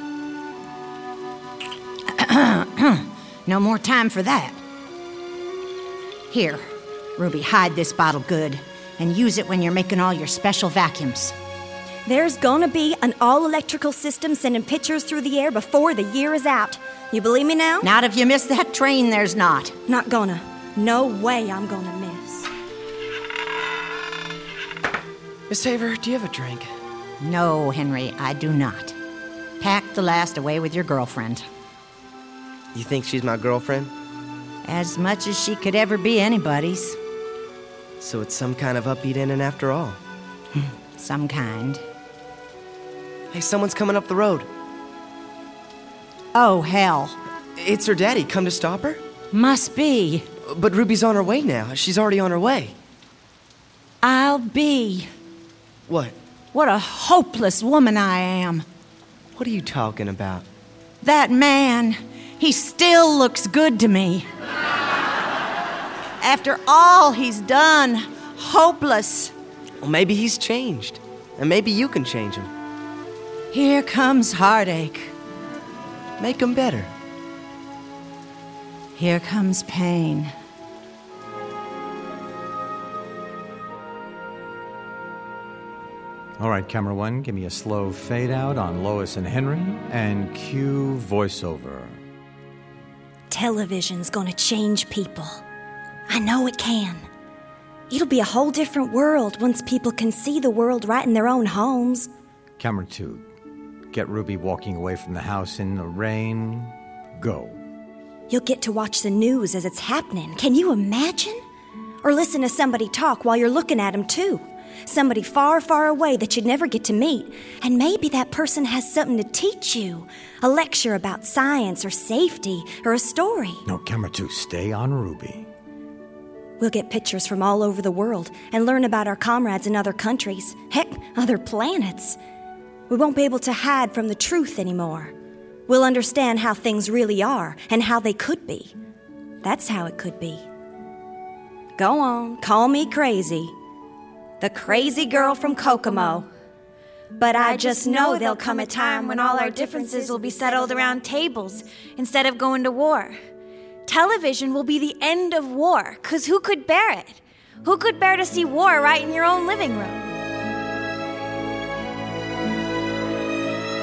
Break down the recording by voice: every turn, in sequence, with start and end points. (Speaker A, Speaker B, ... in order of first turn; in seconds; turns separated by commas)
Speaker A: 2.1-4.6, Speaker A: 6.3-6.6, Speaker A: 7.2-11.3, Speaker B: 12.1-17.9, Speaker A: 17.8-19.8, Speaker B: 19.9-22.5, Speaker C: 25.5-26.7, Speaker A: 27.2-28.9, Speaker A: 29.6-31.4, Speaker C: 32.7-33.9, Speaker A: 34.6-37.0, Speaker C: 38.0-40.0, Speaker A: 40.5-41.8, Speaker C: 43.3-44.5, Speaker A: 46.3-47.2, Speaker C: 47.6-49.0, Speaker A: 49.3-50.3, Speaker C: 50.5-52.7, Speaker A: 54.0-55.1, Speaker C: 55.9-56.1, Speaker A: 56.5-58.6, Speaker C: 59.4-60.4, Speaker A: 61.0-64.3, Speaker A: 66.2-69.3, Speaker C: 69.8-72.5, Speaker A: 73.5-75.1, Speaker C: 76.2-76.9, Speaker A: 78.9-80.3, Speaker D: 86.4-92.0, Speaker B: 93.3-95.4, Speaker B: 96.1-97.0, Speaker B: 97.9-102.1, Speaker D: 102.6-103.2, Speaker D: 103.9-107.6, Speaker B: 108.3-111.4, Speaker B: 112.0-123.6, Speaker D: 123.6-125.5, Speaker B: 126.6-132.2, Speaker B: 132.9-135.1, Speaker B: 135.7-138.7, Speaker B: 139.4-140.4, Speaker B: 141.8-143.5, Speaker B: 144.4-146.3, Speaker B: 147.2-150.9, Speaker E: 147.4-153.2, Speaker E: 153.8-160.1